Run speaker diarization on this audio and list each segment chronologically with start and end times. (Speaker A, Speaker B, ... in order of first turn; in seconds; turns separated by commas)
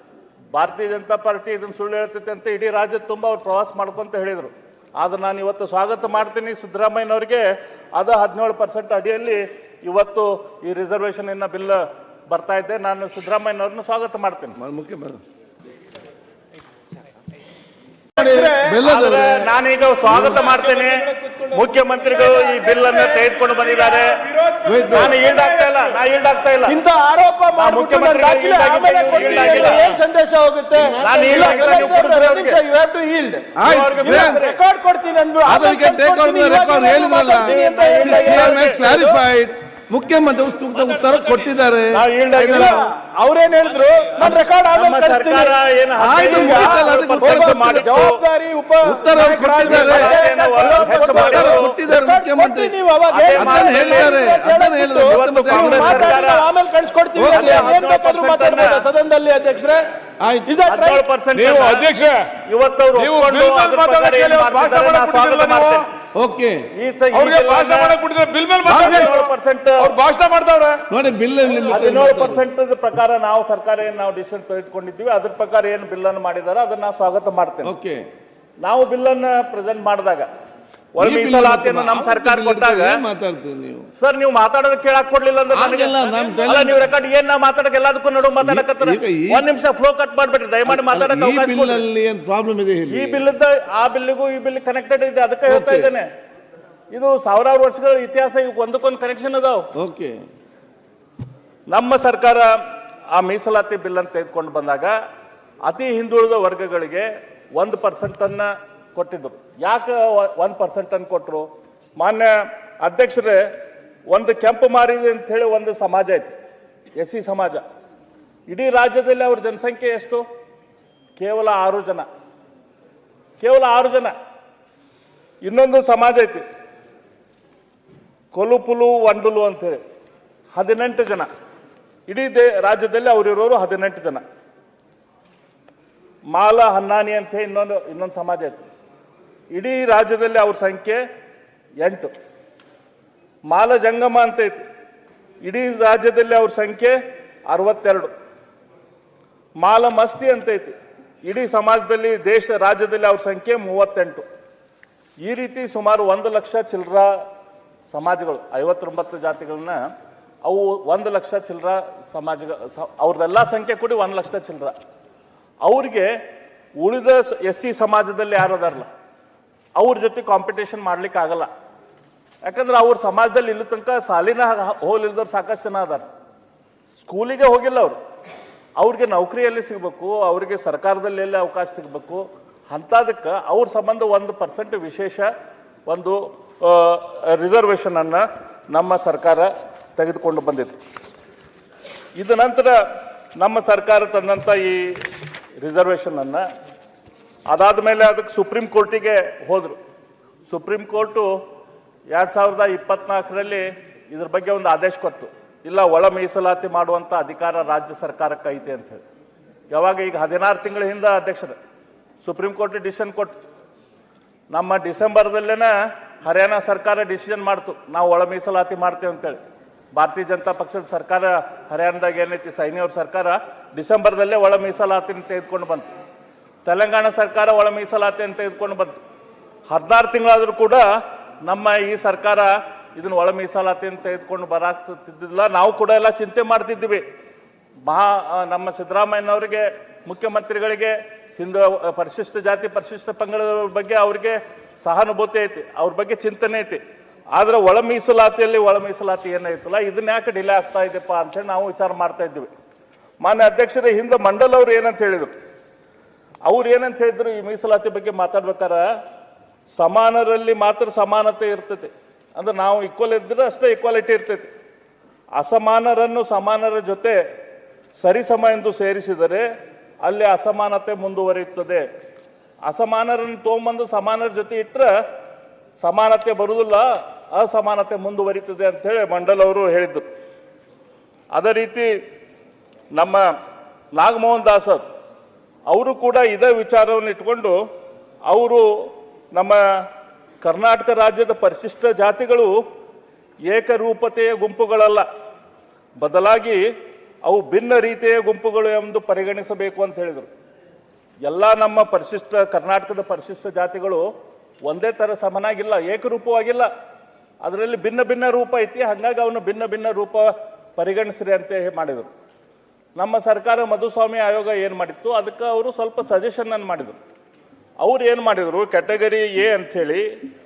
Speaker A: 0.5-14.6, Speaker B: 14.6-15.2, Speaker B: 18.1-19.5, Speaker C: 18.2-18.9, Speaker A: 18.8-24.2, Speaker D: 20.0-21.6, Speaker C: 22.2-23.2, Speaker C: 24.4-25.8, Speaker B: 24.6-25.2, Speaker A: 24.9-26.8, Speaker C: 26.6-39.2, Speaker A: 27.5-29.9, Speaker A: 31.0-32.6, Speaker B: 33.5-34.4, Speaker A: 33.6-34.6, Speaker B: 35.4-42.8, Speaker A: 37.3-39.2, Speaker A: 41.9-42.8, Speaker C: 42.4-59.8, Speaker A: 44.2-48.2, Speaker B: 46.0-48.1, Speaker B: 48.8-52.8, Speaker A: 49.6-51.7, Speaker A: 53.1-54.3, Speaker B: 53.3-56.2, Speaker A: 55.0-56.5, Speaker B: 57.1-57.7, Speaker A: 57.3-58.9, Speaker B: 60.2-60.5, Speaker C: 60.5-61.0, Speaker A: 60.7-61.9, Speaker D: 61.3-62.3, Speaker A: 62.5-65.9, Speaker D: 62.9-65.9, Speaker B: 66.1-66.7, Speaker A: 66.7-68.0, Speaker D: 67.1-70.9, Speaker B: 68.7-69.1, Speaker A: 68.7-69.9, Speaker B: 70.9-72.4, Speaker D: 71.5-71.7, Speaker A: 71.7-77.7, Speaker B: 77.6-78.0, Speaker A: 78.6-80.3, Speaker A: 81.0-83.0, Speaker B: 81.0-83.9, Speaker A: 84.0-91.8, Speaker B: 85.5-86.8, Speaker B: 88.4-89.5, Speaker B: 90.7-93.2, Speaker A: 92.9-96.1, Speaker B: 95.5-95.9, Speaker A: 96.9-99.7, Speaker B: 99.7-100.2, Speaker A: 101.7-102.5, Speaker A: 103.1-105.0, Speaker A: 105.7-113.5, Speaker A: 114.1-116.3, Speaker A: 117.0-117.6, Speaker A: 118.5-120.2, Speaker A: 121.2-122.1, Speaker A: 123.4-124.1, Speaker A: 125.4-126.4, Speaker A: 128.3-129.8, Speaker A: 130.5-131.3, Speaker A: 132.1-134.2, Speaker A: 136.3-138.7, Speaker A: 139.5-141.0, Speaker A: 141.8-142.1, Speaker A: 143.5-144.6, Speaker A: 145.4-148.1, Speaker A: 149.6-154.2, Speaker A: 155.2-157.2, Speaker A: 157.9-159.8, Speaker A: 160.4-164.7, Speaker A: 165.6-166.2, Speaker A: 166.8-168.9, Speaker A: 169.8-171.5, Speaker A: 172.4-176.0, Speaker A: 177.0-178.0, Speaker A: 178.8-185.3, Speaker A: 185.9-190.8, Speaker A: 192.2-192.7, Speaker A: 193.4-195.0, Speaker A: 195.6-196.4, Speaker A: 197.5-199.8, Speaker A: 200.5-201.4, Speaker A: 202.1-209.0, Speaker A: 209.7-211.6, Speaker A: 212.2-213.3, Speaker A: 214.5-219.4, Speaker A: 219.9-225.9, Speaker A: 226.7-229.0, Speaker A: 229.7-230.8, Speaker A: 231.4-237.0, Speaker A: 237.8-246.8, Speaker A: 247.3-252.5, Speaker A: 253.2-255.3, Speaker A: 256.4-258.8, Speaker A: 259.8-264.5, Speaker A: 265.4-267.2, Speaker A: 268.0-269.5, Speaker A: 270.0-271.9, Speaker A: 272.6-274.9, Speaker A: 275.8-280.0, Speaker A: 281.3-281.9, Speaker A: 282.9-283.2, Speaker A: 283.9-284.8, Speaker A: 285.7-287.5, Speaker A: 288.3-289.6, Speaker A: 290.4-292.5, Speaker A: 293.5-295.1, Speaker A: 296.0-296.6, Speaker A: 297.2-300.3, Speaker A: 301.2-304.0, Speaker A: 304.6-306.7, Speaker A: 307.4-312.1, Speaker A: 313.0-317.0, Speaker A: 317.8-320.1